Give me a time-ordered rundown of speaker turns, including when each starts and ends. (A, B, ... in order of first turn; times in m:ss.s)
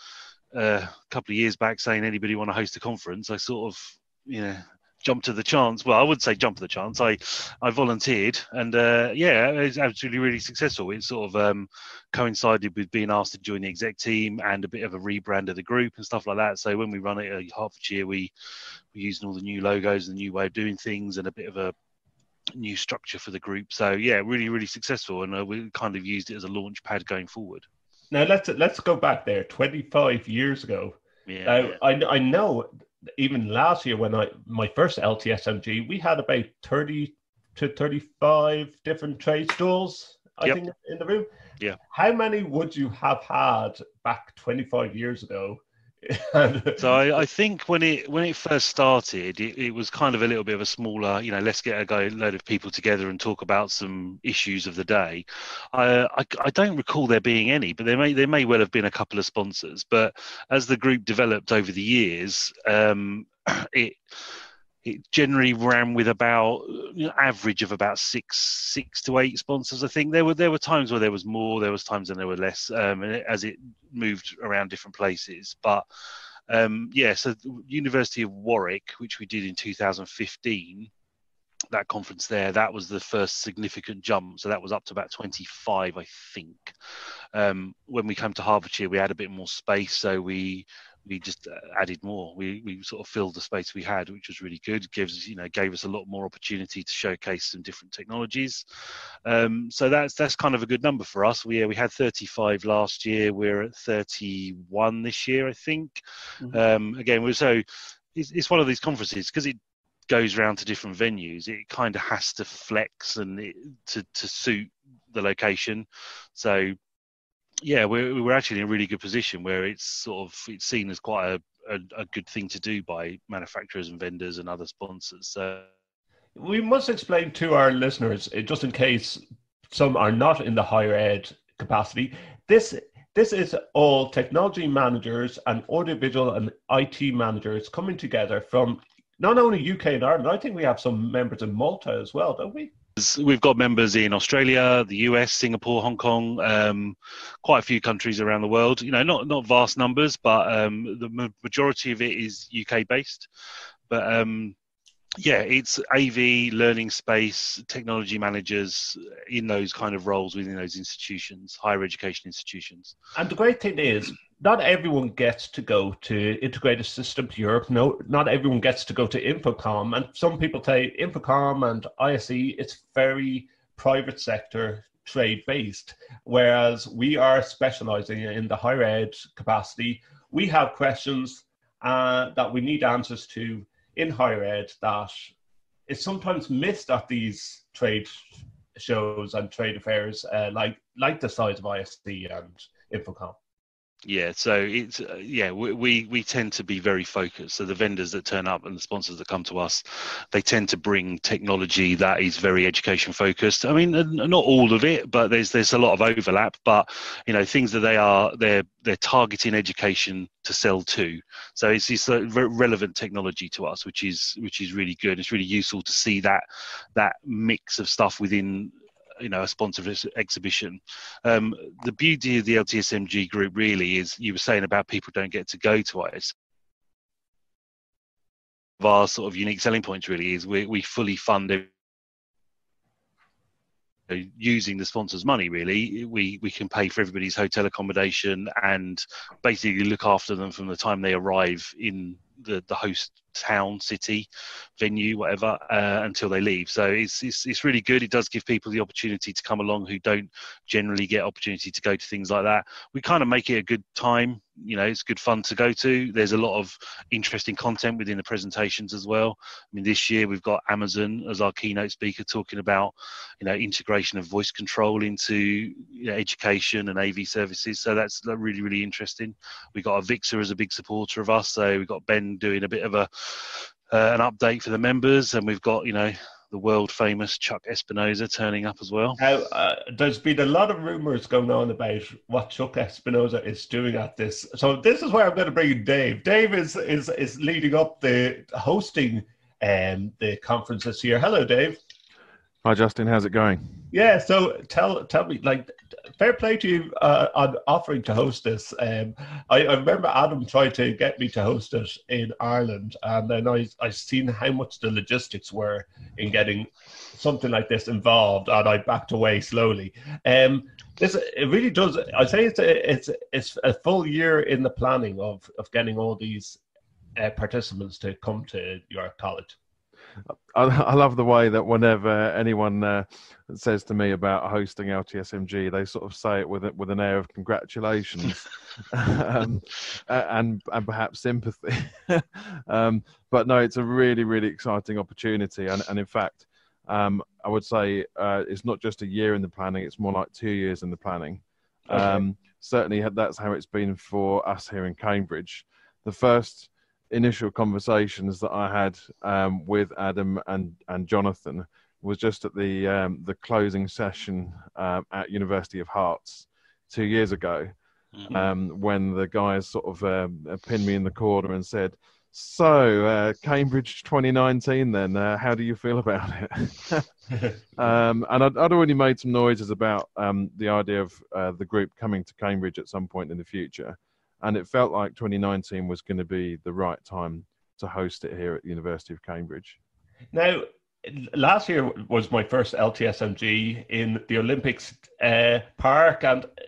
0:00.5-0:18.3 A
0:18.9-0:21.7 A
0:22.6-0:27.6 A
0:28.1-0:41.3 B
0:31.3-0:31.8 A
0:41.9-0:46.9 B
0:46.8-1:04.0 A
1:04.8-1:15.8 A
1:16.5-1:20.9 A
1:21.7-1:26.7 A
1:27.3-1:38.6 A
1:39.2-1:49.6 A
1:50.1-1:56.8 A
1:57.6-2:05.7 A
2:06.4-2:22.7 B
2:23.0-2:33.3 A
2:33.9-2:34.5 A
2:35.2-2:43.0 A
2:43.2-3:05.3 B
3:05.9-3:13.4 B
3:14.0-3:36.4 A
3:37.0-3:46.3 A
3:48.8-3:51.7 A
3:54.1-4:04.3 A
4:04.8-4:39.2 A
4:39.2-4:51.8 B
4:52.6-4:53.9 C
4:53.9-5:16.6 B
5:17.2-5:19.6 B
5:20.5-5:57.7 C
5:41.9-5:42.2 B
5:58.3-6:07.1 C
6:07.8-6:19.8 C
6:20.3-6:26.5 B